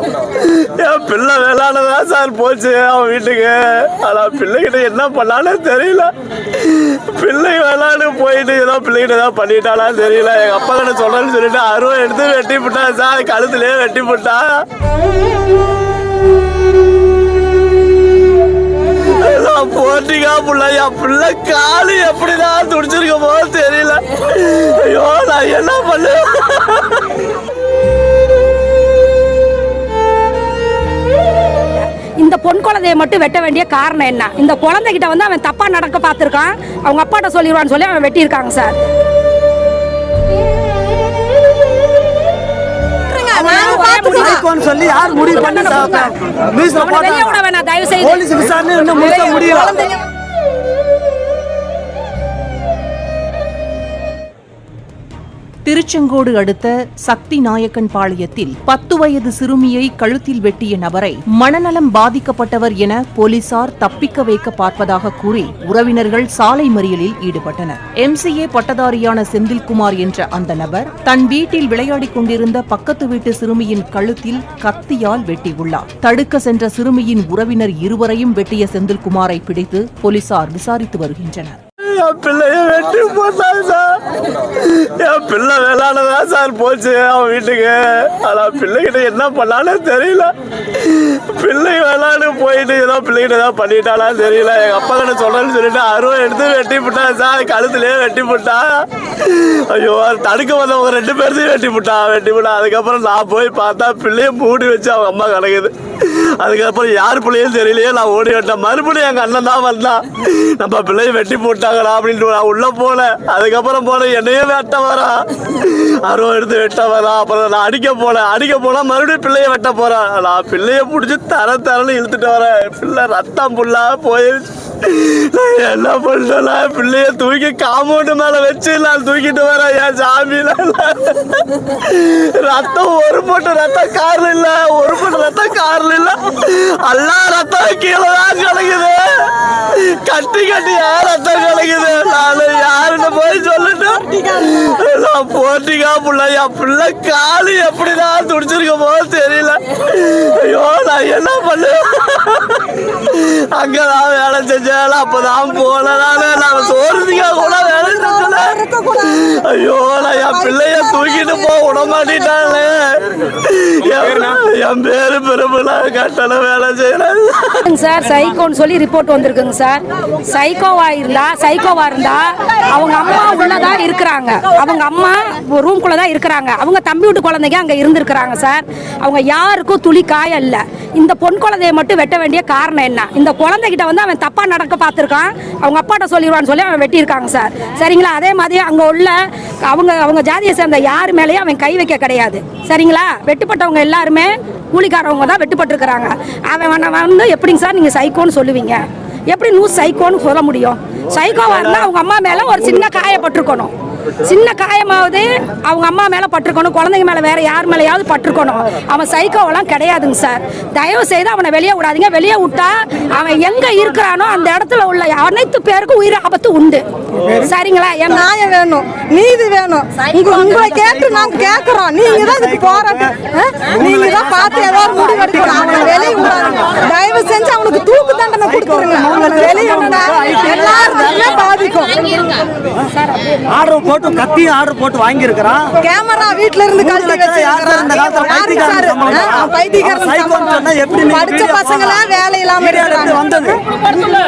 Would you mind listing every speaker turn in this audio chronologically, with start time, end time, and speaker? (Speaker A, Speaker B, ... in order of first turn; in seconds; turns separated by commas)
Speaker A: 0.4-14.6, Speaker A: 19.2-27.1, Speaker B: 31.7-38.8, Speaker C: 43.1-44.5, Speaker B: 43.3-48.3, Speaker D: 43.6-47.4, Speaker D: 48.0-49.7, Speaker B: 48.9-49.7, Speaker C: 49.0-50.0, Speaker E: 55.7-81.6, Speaker A: 81.8-84.0, Speaker A: 84.5-167.6, Speaker C: 157.4-159.3, Speaker C: 160.5-160.7, Speaker B: 167.7-203.7, Speaker B: 204.2-218.3, Speaker C: 218.1-232.0, Speaker D: 222.2-223.1, Speaker D: 223.7-226.8, Speaker D: 228.4-231.3, Speaker D: 233.5-235.7, Speaker C: 235.8-243.2, Speaker D: 236.8-242.1, Speaker D: 242.6-243.6